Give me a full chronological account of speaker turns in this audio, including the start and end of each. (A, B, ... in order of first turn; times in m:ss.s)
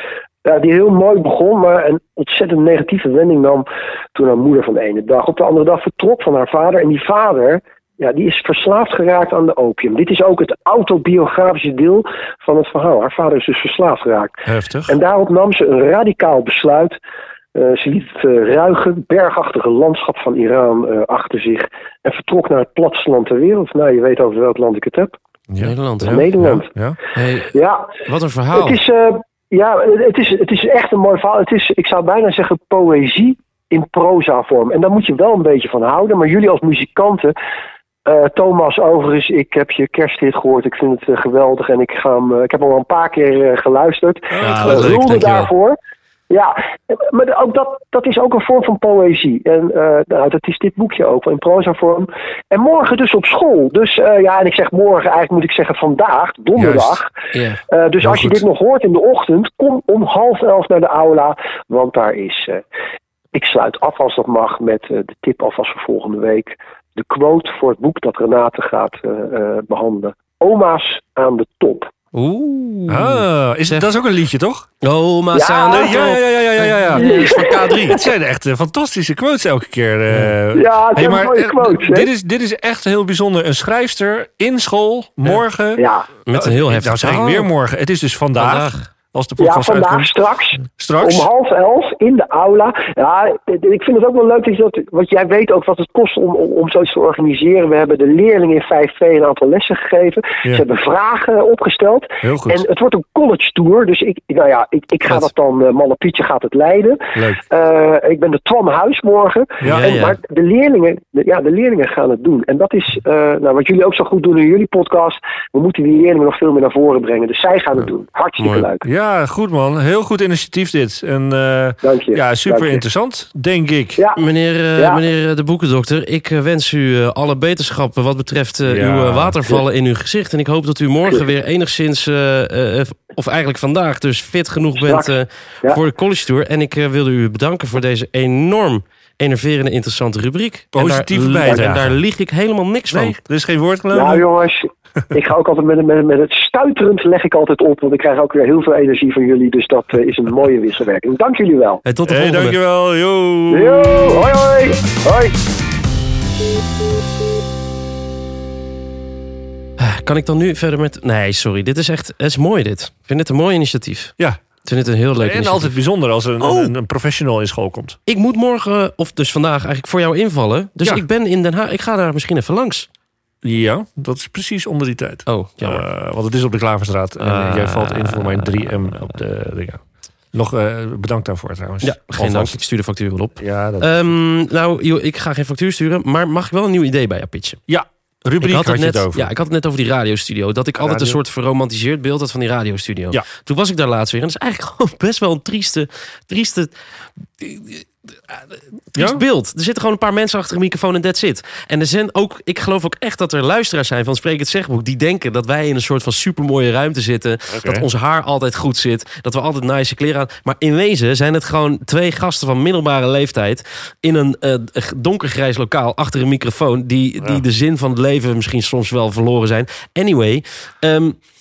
0:00.4-0:17.0 A
0:14.5-0:15.0 B
0:17.5-0:25.1 A
0:25.5-0:27.0 B
0:25.6-0:26.3 C
0:26.0-0:26.7 A
0:27.1-0:28.8 C
0:27.5-0:28.0 A
0:28.5-0:37.3 A
0:38.0-0:45.8 A
0:44.3-0:45.2 B
0:44.4-0:45.5 C
0:46.3-0:57.1 A
0:56.6-0:57.0 B
0:57.3-0:57.6 C
0:57.7-1:02.6 A
0:58.0-0:58.4 B
1:03.3-1:11.9 A
1:12.1-1:13.9 C
1:12.9-1:14.7 B
1:14.8-1:18.1 C
1:15.3-1:16.1 A
1:15.7-1:30.1 B
1:16.9-1:17.9 A
1:20.1-1:20.3 C
1:20.5-1:22.1 A
1:25.8-1:26.1 A
1:26.2-1:27.5 C
1:28.4-1:28.9 C
1:29.4-1:58.8 A
1:30.7-1:31.3 B
1:42.2-1:42.6 B
1:47.1-1:47.4 B
1:49.6-1:49.9 B
1:49.6-1:50.2 C
1:58.4-1:58.7 C
1:58.8-2:04.0 B
2:01.8-2:02.8 A
2:04.0-2:04.2 A
2:04.2-2:23.2 C
2:04.8-2:05.0 A
2:08.6-2:09.4 B
2:14.8-2:15.1 A
2:20.7-2:22.0 B
2:22.9-2:24.2 B
2:23.9-2:31.8 A
2:31.8-2:32.6 C
2:32.0-2:34.2 B
2:33.5-2:35.3 A
2:39.8-2:45.7 C
2:45.2-2:48.0 B
2:46.4-2:46.7 C
2:48.1-2:52.9 C
2:53.4-2:59.8 B
2:55.3-2:55.8 C
2:57.2-2:59.1 C
3:00.3-3:02.6 B
3:01.8-3:07.6 C
3:03.4-3:04.1 B
3:07.7-3:09.3 B
3:08.4-3:16.7 C
3:10.8-3:11.2 B
3:17.4-3:41.2 C
3:19.0-3:19.2 B
3:27.5-3:27.8 B